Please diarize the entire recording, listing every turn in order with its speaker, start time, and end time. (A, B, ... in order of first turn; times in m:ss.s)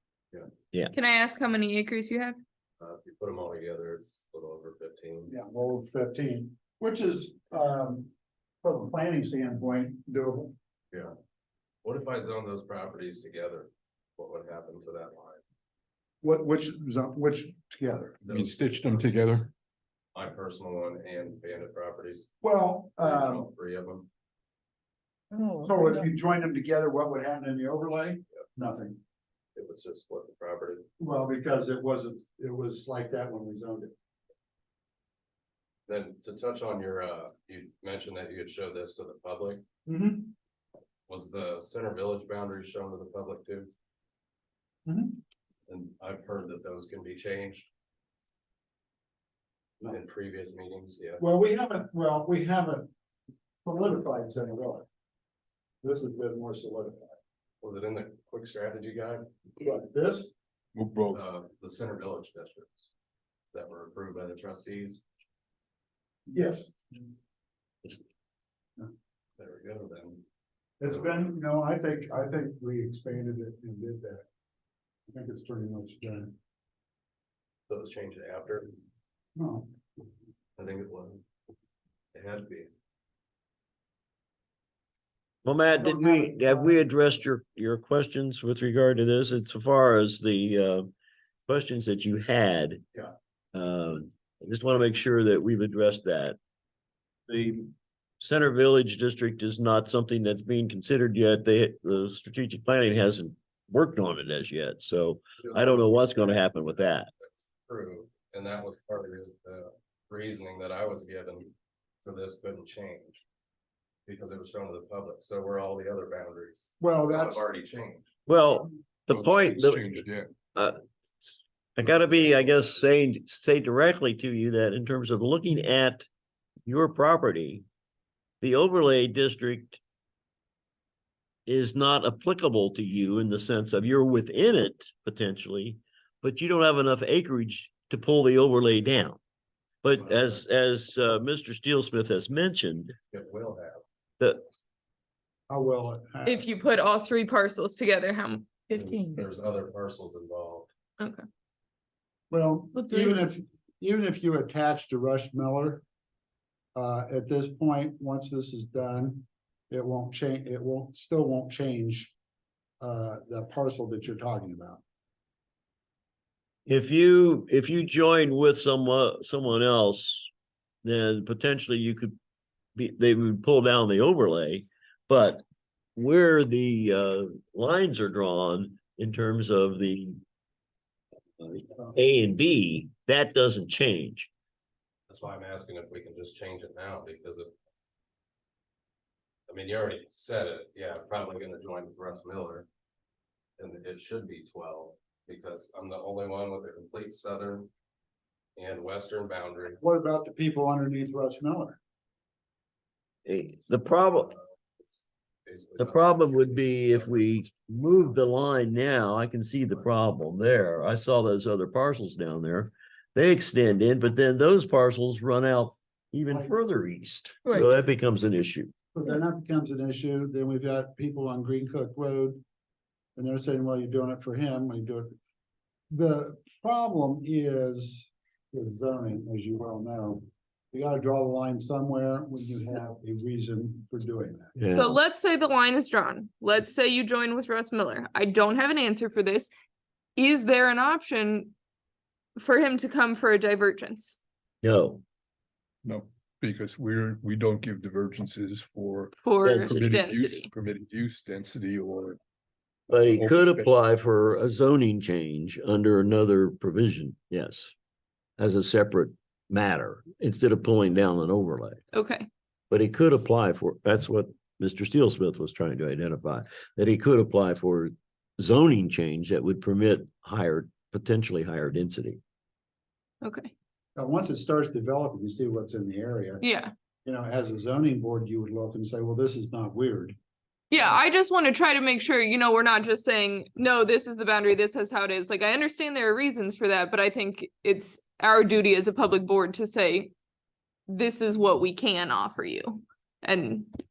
0:00.9-0:02.4 A
0:02.8-0:05.3 B
0:05.3-0:08.1 C
0:08.6-0:10.6 C
0:11.8-0:15.4 B
0:16.2-0:18.1 C
0:17.9-0:19.1 B
0:18.3-0:19.5 D
0:20.2-0:22.3 B
0:22.4-0:23.5 C
0:23.0-0:24.1 B
0:25.3-0:25.9 A
0:25.6-0:29.0 C
0:29.6-0:30.9 B
0:31.0-0:33.9 C
0:35.9-0:39.6 B
0:39.9-0:40.3 C
0:41.1-0:43.7 B
0:44.9-0:45.2 C
0:45.7-0:47.7 B
0:49.8-0:51.2 B
0:51.2-0:52.9 C
0:53.6-0:54.9 C
0:55.8-0:57.2 C
0:57.6-0:59.3 B
0:59.6-1:00.3 C
1:00.8-1:01.2 D
1:01.1-1:02.9 B
1:03.5-1:05.0 B
1:06.3-1:06.8 C
1:09.4-1:10.2 B
1:10.8-1:14.3 C
1:10.9-1:11.2 B
1:15.1-1:16.4 C
1:17.7-1:18.8 B
1:19.4-1:19.7 C
1:20.6-1:21.2 B
1:22.1-1:22.7 B
1:25.4-1:30.9 E
1:25.7-1:26.9 C
1:31.5-1:32.8 E
1:33.5-1:36.4 E
1:37.3-1:47.1 E
1:45.4-1:46.7 B
1:47.2-1:51.5 B
1:52.0-1:53.2 B
1:54.1-1:58.1 B
1:56.8-1:57.5 C
1:58.3-2:00.0 E
1:59.1-2:00.3 D
2:00.6-2:06.1 E
2:01.8-2:02.8 B
2:06.7-2:07.6 E
2:08.4-2:09.8 E
2:11.5-2:19.2 E
2:19.8-2:23.0 E
2:19.9-2:20.4 B
2:23.1-2:23.8 B
2:25.5-2:26.5 C
2:26.2-2:29.2 A
2:28.7-2:30.7 B
2:31.0-2:31.2 A
2:32.3-2:35.8 C
2:32.8-2:33.1 A
2:36.8-2:42.1 C
2:42.8-2:44.8 C
2:46.7-2:50.3 E
2:50.8-2:52.2 E
2:52.8-2:55.4 E
2:56.0-3:00.2 E
3:01.4-3:04.3 E
3:05.1-3:07.5 B
3:09.5-3:12.7 B
3:13.6-3:17.7 B
3:18.6-3:19.8 B
3:19.8-3:21.8 C
3:23.2-3:24.3 E
3:24.3-3:27.5 B
3:25.8-3:38.7 E
3:38.9-3:42.4 C
3:43.2-3:45.2 C
3:45.9-3:54.6 C
3:54.6-3:55.0 E
3:54.7-3:59.5 A
4:00.2-4:01.5 A
4:02.4-4:04.2 A
4:04.6-4:05.0 E
4:05.8-4:09.2 D
4:09.2-4:10.5 A
4:09.4-4:10.0 E
4:09.7-4:12.2 D
4:12.9-4:13.8 D
4:12.9-4:17.7 E
4:18.4-4:21.8 E
4:21.9-4:22.3 A
4:22.7-4:32.2 E
4:33.2-4:33.5 A
4:34.0-4:36.4 C
4:36.4-4:36.7 A
4:37.0-4:40.2 C
4:40.7-4:50.1 A
4:50.9-4:53.7 A